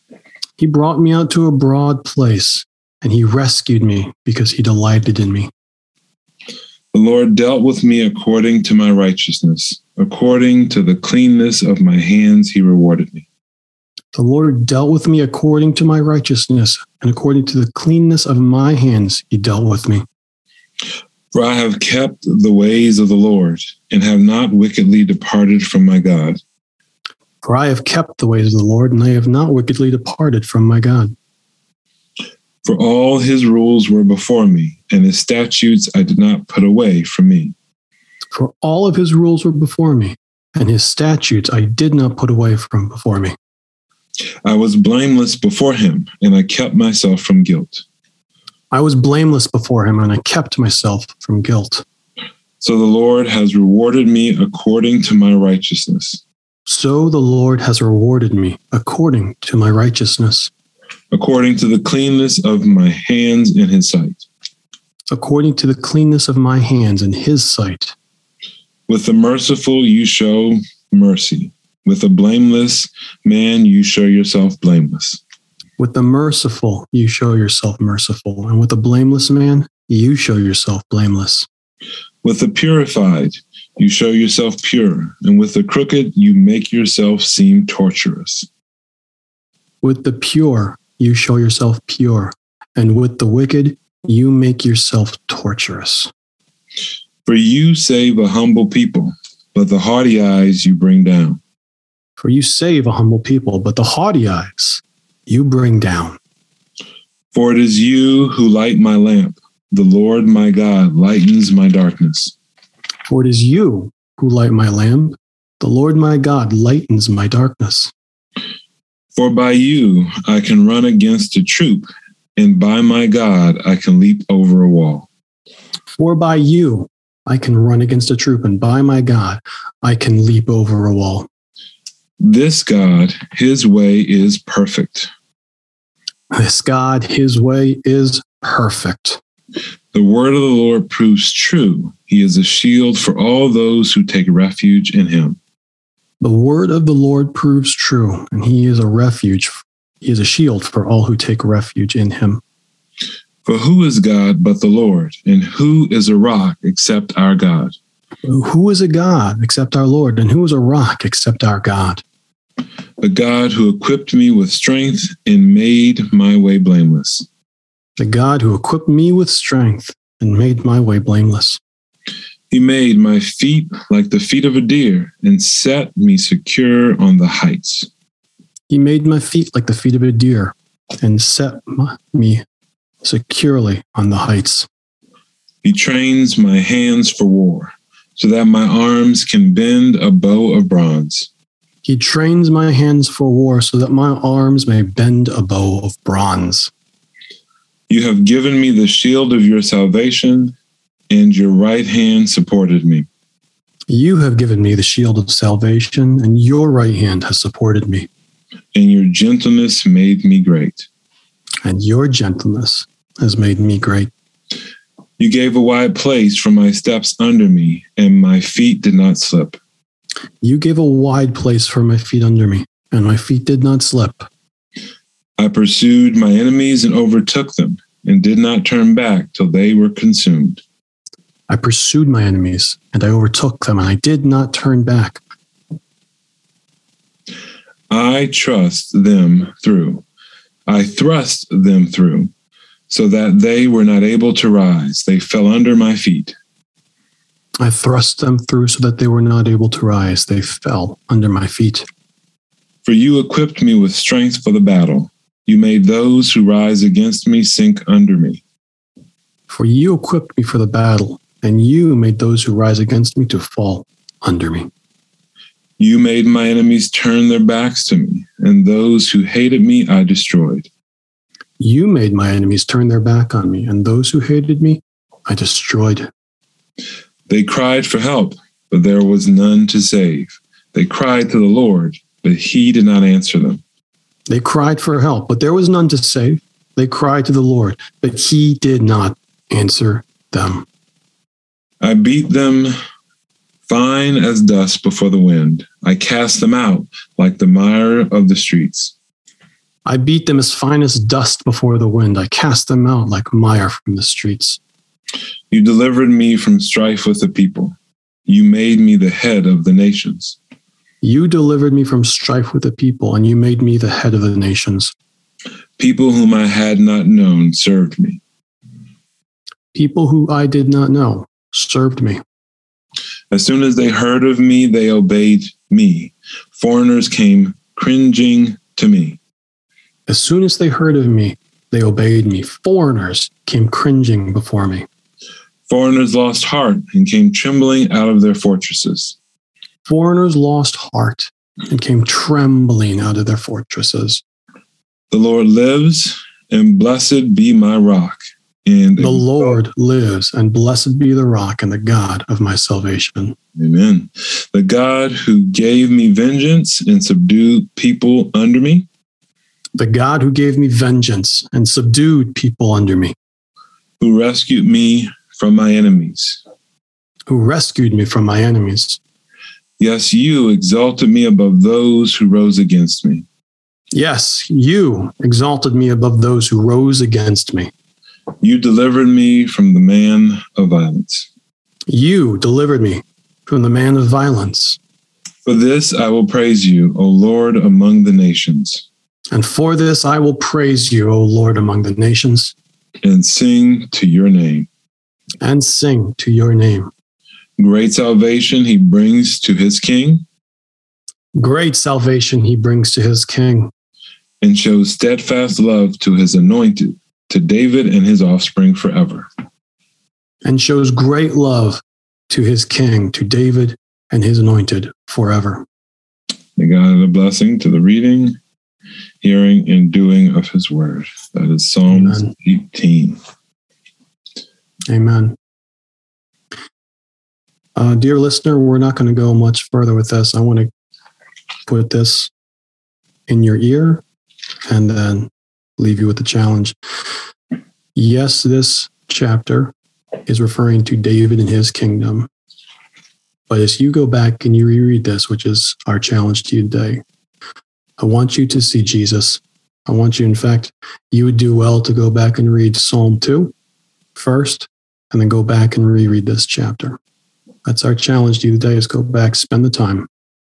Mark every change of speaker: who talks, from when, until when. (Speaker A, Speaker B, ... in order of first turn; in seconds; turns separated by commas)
Speaker A: 0.6-5.5, Speaker B: 6.9-13.2, Speaker A: 14.1-20.0, Speaker B: 21.3-26.4, Speaker A: 27.4-31.1, Speaker B: 32.6-37.5, Speaker A: 38.3-43.3, Speaker B: 44.4-47.8, Speaker A: 48.7-51.8, Speaker B: 52.6-56.2, Speaker A: 56.6-60.5, Speaker B: 61.1-64.2, Speaker A: 65.1-67.9, Speaker B: 68.9-75.2, Speaker A: 75.8-81.5, Speaker B: 82.2-88.5, Speaker A: 89.8-96.1, Speaker B: 97.2-101.4, Speaker A: 102.2-106.2, Speaker B: 107.3-112.3, Speaker A: 113.1-117.9, Speaker B: 119.2-125.1, Speaker A: 126.0-131.3, Speaker B: 132.2-135.1, Speaker A: 136.3-139.2, Speaker B: 139.9-145.4, Speaker A: 146.2-152.4, Speaker B: 153.4-157.7, Speaker A: 158.2-162.0, Speaker B: 163.0-167.3, Speaker A: 168.0-171.6, Speaker B: 172.5-177.9, Speaker A: 178.7-182.4, Speaker A: 183.0-184.7, Speaker B: 185.6-191.3, Speaker A: 191.8-196.7, Speaker B: 197.9-200.5, Speaker B: 201.1-203.1, Speaker A: 203.9-208.1, Speaker B: 208.7-210.9, Speaker A: 211.6-214.1, Speaker B: 215.2-219.6, Speaker A: 220.4-224.3, Speaker B: 225.4-230.6, Speaker A: 231.5-235.2, Speaker B: 237.9-240.0, Speaker B: 240.7-242.3, Speaker B: 242.9-246.3, Speaker A: 247.6-251.9, Speaker B: 252.8-258.4, Speaker A: 259.5-264.7, Speaker B: 265.8-270.7, Speaker A: 271.6-276.1, Speaker B: 277.3-283.6, Speaker A: 284.3-290.6, Speaker B: 291.8-292.7, Speaker B: 293.7-298.9, Speaker A: 299.8-304.6, Speaker B: 305.5-307.8, Speaker B: 308.3-310.4, Speaker A: 311.0-314.9, Speaker B: 315.8-318.2, Speaker A: 319.7-322.2, Speaker B: 323.3-329.2, Speaker A: 330.1-334.9, Speaker B: 335.7-339.1, Speaker A: 339.9-344.2, Speaker B: 345.1-349.6, Speaker A: 349.0-353.4, Speaker B: 353.6-358.9, Speaker A: 359.8-363.1, Speaker B: 364.0-366.4, Speaker A: 367.3-369.0, Speaker B: 369.8-373.2, Speaker A: 373.9-377.7, Speaker B: 378.4-381.3, Speaker A: 381.9-384.8, Speaker B: 385.4-388.8, Speaker A: 389.3-392.5, Speaker B: 393.0-394.7, Speaker A: 395.4-396.9, Speaker B: 397.6-400.2, Speaker A: 401.4-403.7, Speaker B: 404.4-409.3, Speaker A: 410.4-415.6, Speaker B: 416.6-418.4, Speaker B: 419.2-423.2, Speaker A: 421.9-422.3, Speaker A: 424.9-425.4, Speaker A: 427.8-430.7, Speaker A: 431.6-432.3, Speaker A: 433.3-434.0, Speaker A: 434.6-436.8, Speaker A: 437.9-439.7, Speaker A: 440.2-442.3, Speaker A: 443.5-447.0, Speaker A: 448.0-453.5, Speaker A: 454.1-457.0, Speaker A: 457.6-460.1